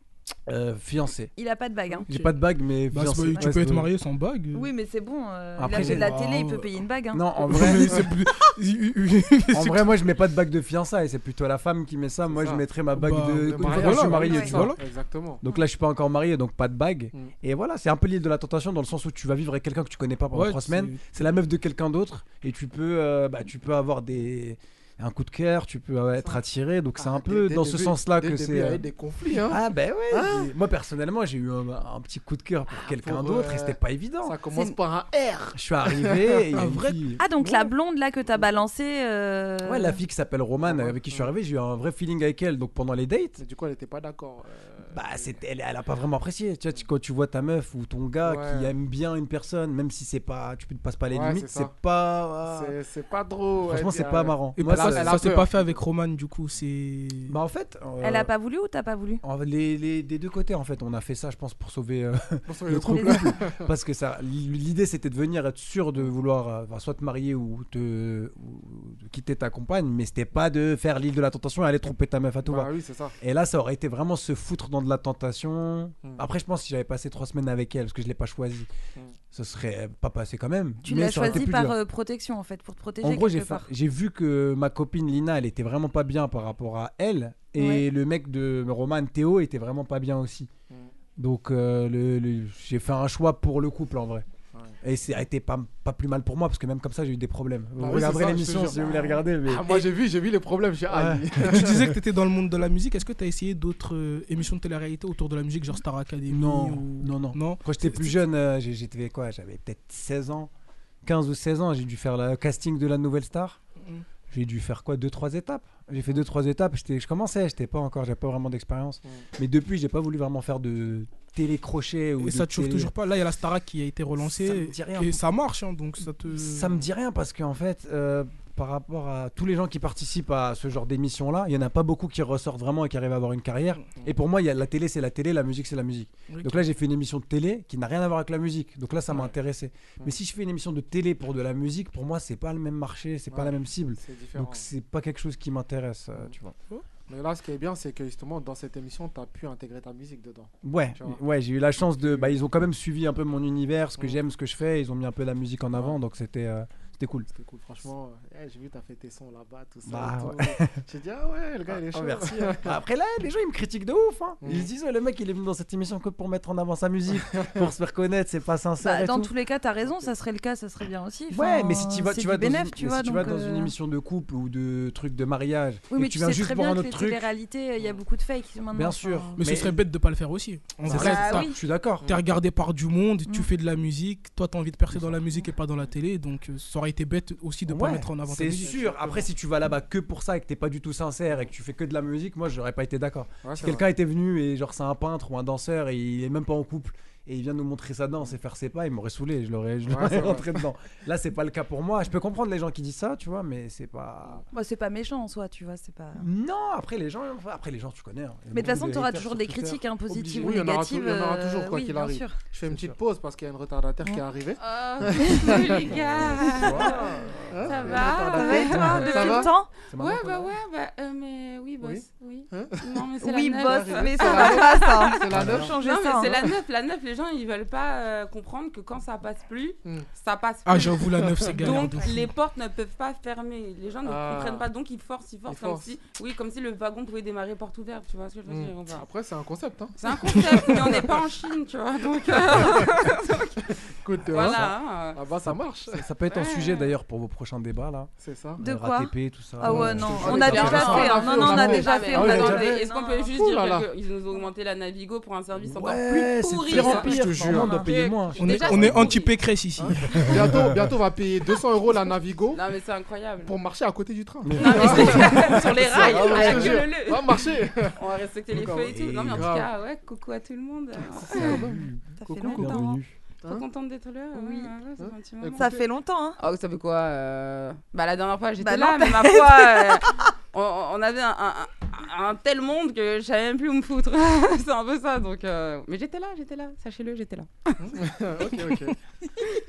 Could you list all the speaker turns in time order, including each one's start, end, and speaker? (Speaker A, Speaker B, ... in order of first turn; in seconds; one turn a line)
Speaker A: 0.5-1.3
Speaker B: 1.4-2.1
Speaker C: 2.0-2.3
Speaker A: 2.1-3.9
Speaker C: 2.9-4.7
Speaker B: 4.5-7.2
Speaker A: 5.6-6.3
Speaker C: 5.7-6.7
Speaker A: 7.1-8.1
Speaker C: 7.4-10.0
Speaker A: 9.5-14.8
Speaker D: 12.3-12.6
Speaker C: 12.9-14.8
Speaker D: 13.4-15.4
Speaker B: 14.2-14.5
Speaker A: 15.4-28.9
Speaker C: 20.3-21.2
Speaker D: 27.0-30.5
Speaker A: 29.4-34.4
Speaker D: 32.7-36.4
Speaker A: 35.5-37.7
Speaker C: 36.5-37.0
Speaker B: 37.2-40.0
Speaker A: 39.6-43.4
Speaker D: 40.6-41.3
Speaker D: 43.4-45.4
Speaker A: 44.9-52.8
Speaker D: 48.2-48.7
Speaker D: 51.1-51.7
Speaker D: 52.5-55.7
Speaker A: 53.7-55.2
Speaker C: 54.5-57.4
Speaker A: 57.3-58.3
Speaker B: 58.0-59.2
Speaker A: 59.2-78.7
Speaker D: 62.5-63.6
Speaker B: 62.9-63.2
Speaker D: 72.4-73.2
Speaker A: 79.3-81.8
Speaker B: 80.8-83.7
Speaker A: 83.0-90.5
Speaker B: 87.6-87.8
Speaker A: 91.2-94.3
Speaker A: 94.8-99.9
Speaker D: 97.8-101.8
Speaker A: 100.9-101.9
Speaker C: 101.5-108.0
Speaker A: 106.3-110.5
Speaker A: 111.0-113.6
Speaker A: 114.3-122.9
Speaker C: 122.2-126.8
Speaker A: 124.2-125.2
Speaker A: 126.3-146.6
Speaker C: 136.3-136.6
Speaker D: 143.3-144.7
Speaker D: 147.1-151.2
Speaker A: 150.6-157.3
Speaker D: 151.8-152.3
Speaker D: 157.3-162.8
Speaker A: 159.8-160.8
Speaker A: 161.7-169.3
Speaker D: 164.4-164.7
Speaker D: 167.3-167.7
Speaker B: 168.8-173.7
Speaker D: 169.8-170.1
Speaker A: 171.3-177.3
Speaker B: 175.9-179.4
Speaker A: 178.7-179.8
Speaker C: 179.3-181.5
Speaker A: 180.8-182.1
Speaker B: 180.9-181.6
Speaker C: 182.0-188.8
Speaker A: 187.7-204.4
Speaker D: 188.6-189.3
Speaker D: 193.4-193.8
Speaker D: 199.8-200.6
Speaker B: 204.5-206.3
Speaker A: 206.2-210.6
Speaker B: 208.5-212.3
Speaker D: 210.2-217.0
Speaker A: 212.7-212.9
Speaker E: 214.6-217.0
Speaker A: 215.8-218.1
Speaker D: 217.5-219.5
Speaker E: 217.7-239.1
Speaker B: 218.2-219.7
Speaker A: 218.7-219.1
Speaker A: 219.9-220.5
Speaker D: 221.8-223.1
Speaker B: 223.2-226.3
Speaker D: 223.6-226.5
Speaker A: 225.3-225.7
Speaker C: 230.7-232.3
Speaker D: 231.2-231.8
Speaker D: 234.0-234.7
Speaker D: 235.5-235.9
Speaker D: 238.5-241.2
Speaker E: 240.0-243.7
Speaker D: 242.3-242.9
Speaker D: 243.9-246.1
Speaker A: 244.3-244.7
Speaker E: 244.3-245.2
Speaker A: 245.4-252.7
Speaker E: 246.3-246.9
Speaker D: 248.2-248.6
Speaker B: 248.6-253.2
Speaker D: 249.6-253.9
Speaker E: 250.2-259.4
Speaker A: 255.6-259.2
Speaker D: 256.7-257.8
Speaker C: 258.4-260.4
Speaker D: 259.8-262.6
Speaker A: 260.1-260.7
Speaker E: 262.5-263.6
Speaker D: 263.4-268.0
Speaker A: 264.4-266.9
Speaker E: 264.6-271.6
Speaker D: 268.5-269.7
Speaker A: 268.6-269.5
Speaker D: 271.0-273.6
Speaker A: 271.3-273.2
Speaker B: 272.2-273.0
Speaker E: 273.4-275.7
Speaker B: 274.3-274.7
Speaker D: 275.0-275.9
Speaker B: 275.6-276.4
Speaker E: 276.4-287.8
Speaker B: 278.6-280.2
Speaker D: 287.8-289.0